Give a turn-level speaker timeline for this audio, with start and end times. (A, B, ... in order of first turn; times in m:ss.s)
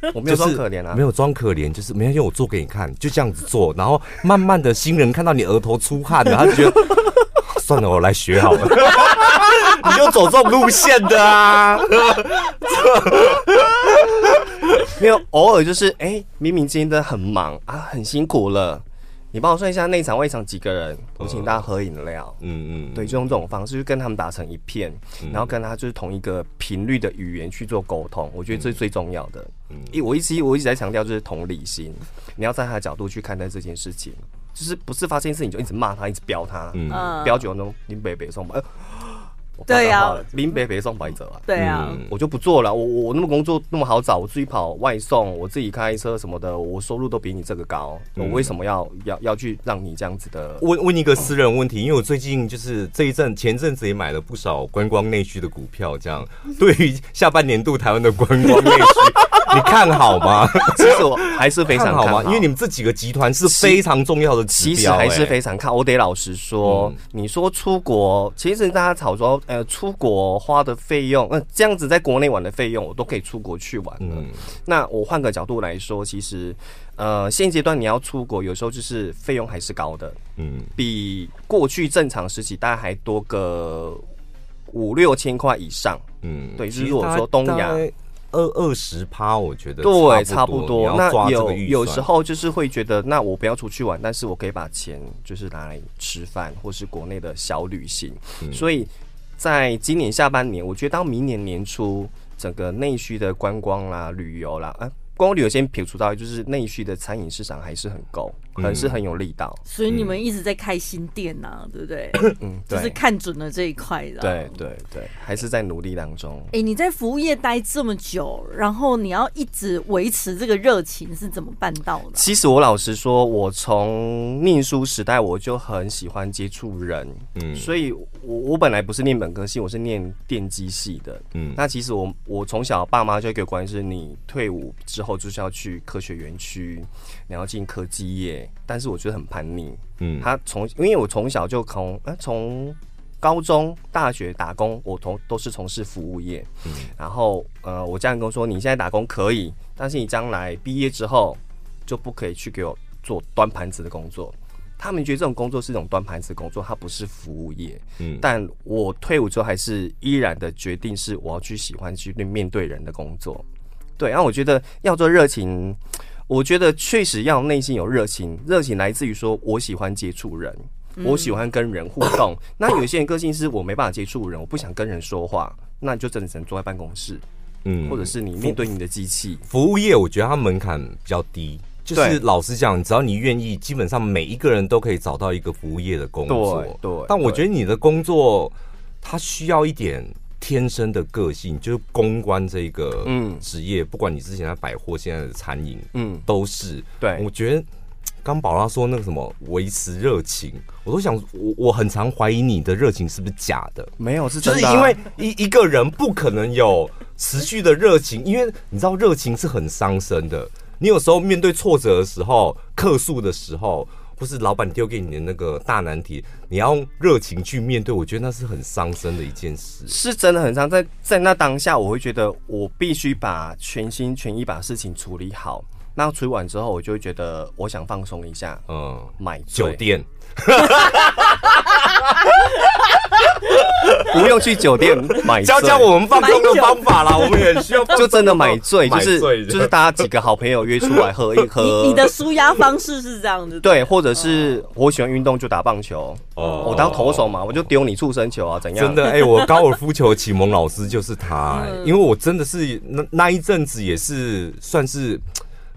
0:00.1-0:01.0 A
0:00.2-0:14.9 B
0:14.8-0:22.4 A
0:21.2-0:21.6 B
0:22.4-0:23.2 B
0:22.9-0:50.6 A
0:25.2-0:25.5 B
0:36.7-0:37.2 B
0:36.9-0:37.5 C
0:39.7-0:40.3 C
0:41.5-0:42.0 C
0:41.6-0:42.1 B
0:48.2-0:48.5 B
0:50.6-1:05.4 B
1:00.6-1:02.5 A
1:03.5-1:03.8 A
1:04.5-1:20.2 A
1:06.6-1:07.0 B
1:14.0-1:14.5 B
1:20.4-1:20.8 B
1:20.8-1:24.0 A
1:24.7-1:26.0 A
1:26.2-1:32.1 B
1:26.6-1:27.8 A
1:29.8-1:49.6 A
1:48.6-1:49.0 B
1:49.7-1:54.5 C
1:49.9-1:50.2 B
1:52.4-1:53.0 A
1:54.2-1:56.5 A
1:56.5-2:02.3 C
2:02.1-2:43.4 A
2:07.4-2:07.7 B
2:11.3-2:11.6 B
2:20.0-2:20.3 B
2:38.0-2:38.3 B
2:44.0-2:57.2 A
2:51.0-2:51.4 C
2:57.6-2:58.6 B
2:57.8-2:59.4 A
2:59.5-3:17.7 B
3:01.9-3:02.2 A
3:06.3-3:07.4 A
3:13.0-3:13.4 A
3:15.9-3:16.2 A
3:17.0-3:17.2 A
3:18.2-3:40.0 B
3:24.0-3:25.0 A
3:39.9-3:48.6 A
3:48.7-3:54.3 B
3:49.2-3:49.8 A
3:54.0-3:56.0 A
3:55.1-3:59.8 B
3:56.1-3:57.9 C
3:57.9-4:02.2 A
4:01.6-4:03.9 C
4:03.6-4:09.2 A
4:06.4-4:07.4 B
4:06.4-4:06.9 C
4:08.7-4:15.2 B
4:09.2-4:09.5 C
4:11.5-4:12.0 C